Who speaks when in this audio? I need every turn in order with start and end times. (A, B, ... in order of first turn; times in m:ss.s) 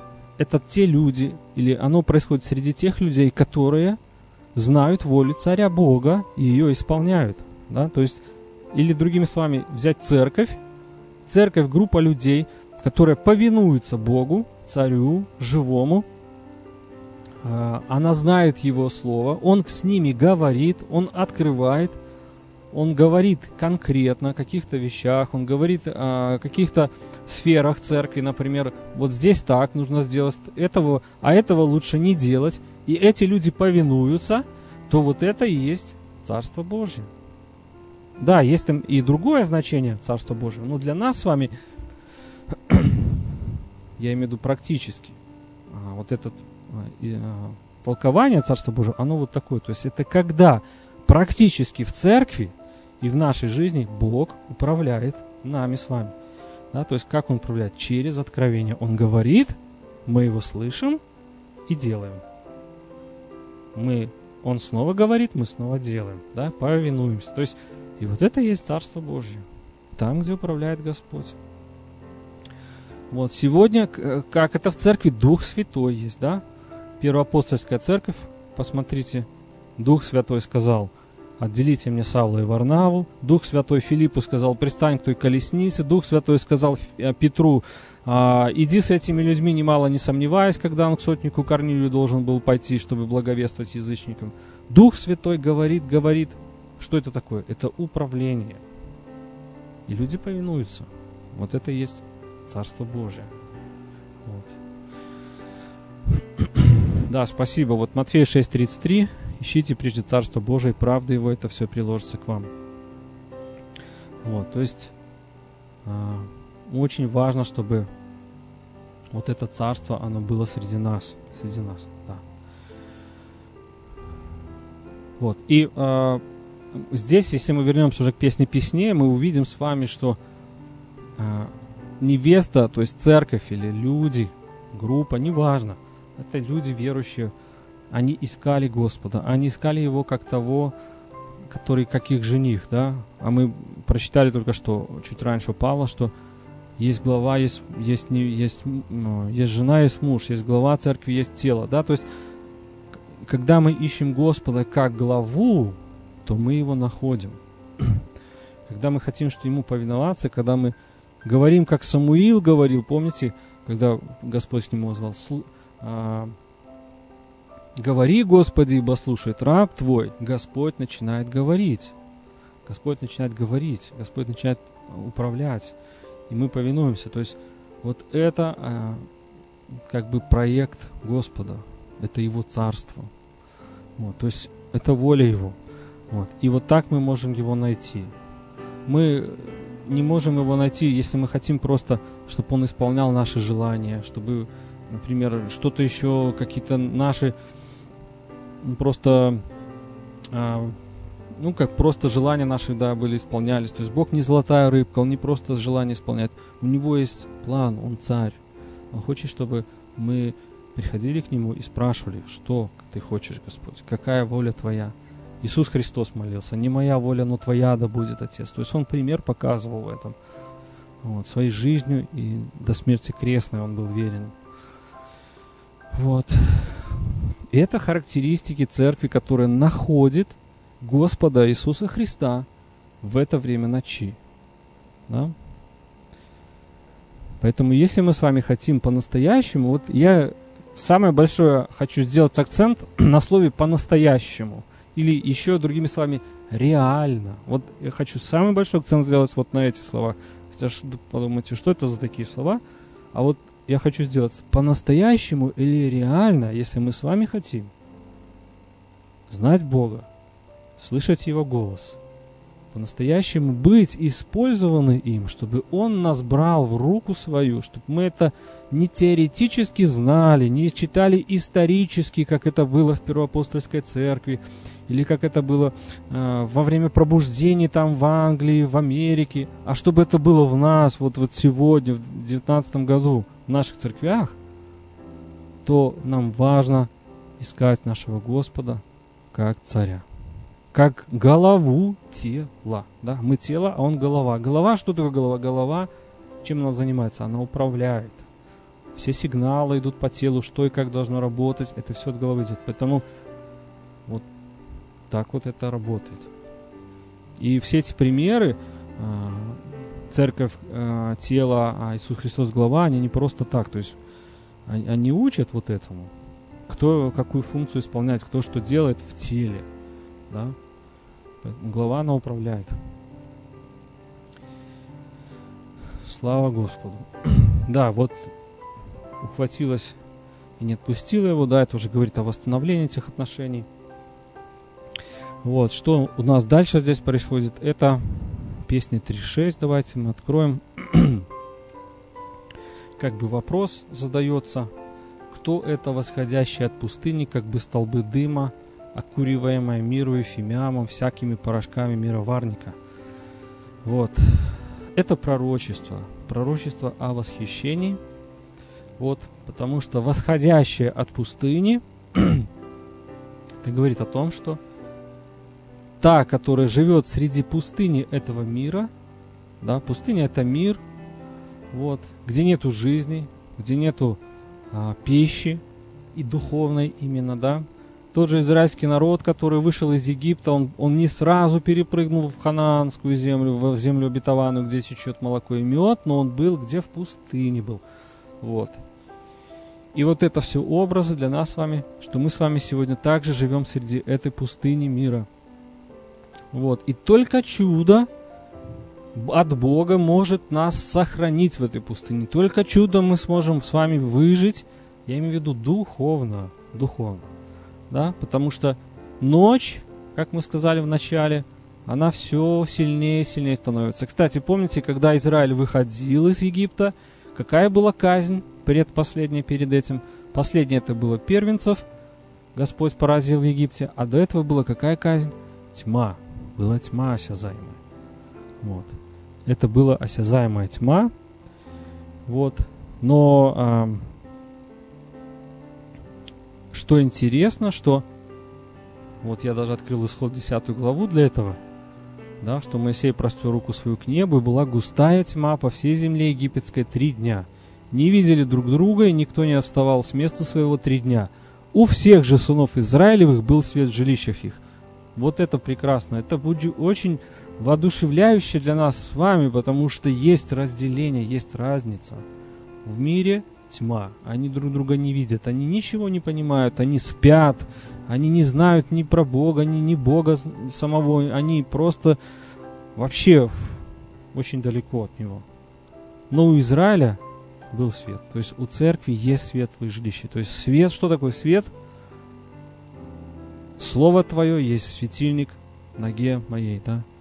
0:00.4-0:04.0 A
0:04.6-0:10.6 A
0:11.3-0:16.1 A
0:17.4-0:22.0 A
0:22.7-0:37.1 A
0:38.2-0:41.5 A
0:42.5-0:43.4 A
0:44.0-0:45.2 A
0:45.7-0:56.1 A
0:56.7-1:01.0 A
1:01.7-1:02.2 A
1:03.7-1:11.4 A
1:13.1-1:16.4 A
1:17.0-1:38.6 A
1:39.9-1:43.3 A
1:44.2-1:44.6 A
1:46.2-1:52.5 A
1:54.2-1:54.9 A
1:55.8-1:57.9 A
1:59.1-2:02.2 A
2:05.2-2:06.2 A
2:06.7-2:10.2 A
2:11.2-2:17.3 A
2:17.9-2:20.7 A
2:21.5-2:26.1 A
2:26.8-2:32.0 A
2:33.2-2:38.0 A
2:38.7-2:46.4 A
2:47.8-2:52.0 A
2:52.7-2:55.8 A
2:56.3-2:59.1 A
2:59.8-3:03.1 A
3:04.0-3:05.6 A
3:06.1-3:08.1 A
3:08.9-3:17.3 A
3:18.6-3:19.4 A
3:20.3-3:20.8 A
3:21.4-3:28.4 A
3:28.9-3:40.2 A
3:41.0-3:44.4 A
3:45.9-3:52.5 A
3:53.0-3:54.2 A
3:55.1-3:55.4 A
3:57.4-4:12.6 A
4:13.1-4:17.7 A
4:19.3-4:20.1 A
4:20.8-4:22.0 A
4:22.7-4:44.4 A
4:45.6-4:50.1 A
4:50.7-4:55.9 A
4:56.4-4:58.2 A
4:59.0-5:03.0 A
5:05.1-5:06.3 A
5:07.4-5:14.0 A
5:14.7-5:16.1 A
5:16.7-5:19.7 A
5:20.3-5:20.6 A
5:21.4-5:22.8 A
5:26.0-5:28.3 A
5:29.2-5:30.0 A
5:30.6-5:33.7 A
5:35.4-5:41.3 A
5:43.0-5:44.7 A
5:45.3-5:52.8 A
5:53.8-5:58.0 A
5:59.0-6:02.5 A
6:03.6-6:04.6 A
6:06.0-6:08.9 A
6:09.6-6:10.8 A
6:11.7-6:14.2 A
6:14.7-6:15.6 A
6:16.1-6:27.8 A
6:28.4-6:28.8 A
6:29.9-6:35.3 A
6:36.5-6:38.1 A
6:39.1-6:47.3 A
6:47.9-7:01.8 A
7:02.5-7:07.8 A
7:08.6-7:11.1 A
7:12.3-7:14.1 A
7:16.7-7:18.0 A
7:19.2-7:21.6 A
7:22.4-7:34.6 A
7:35.2-7:42.2 A
7:42.8-7:52.2 A
7:53.0-7:55.5 A
7:56.3-7:57.2 A
7:57.7-8:01.7 A
8:03.8-8:07.1 A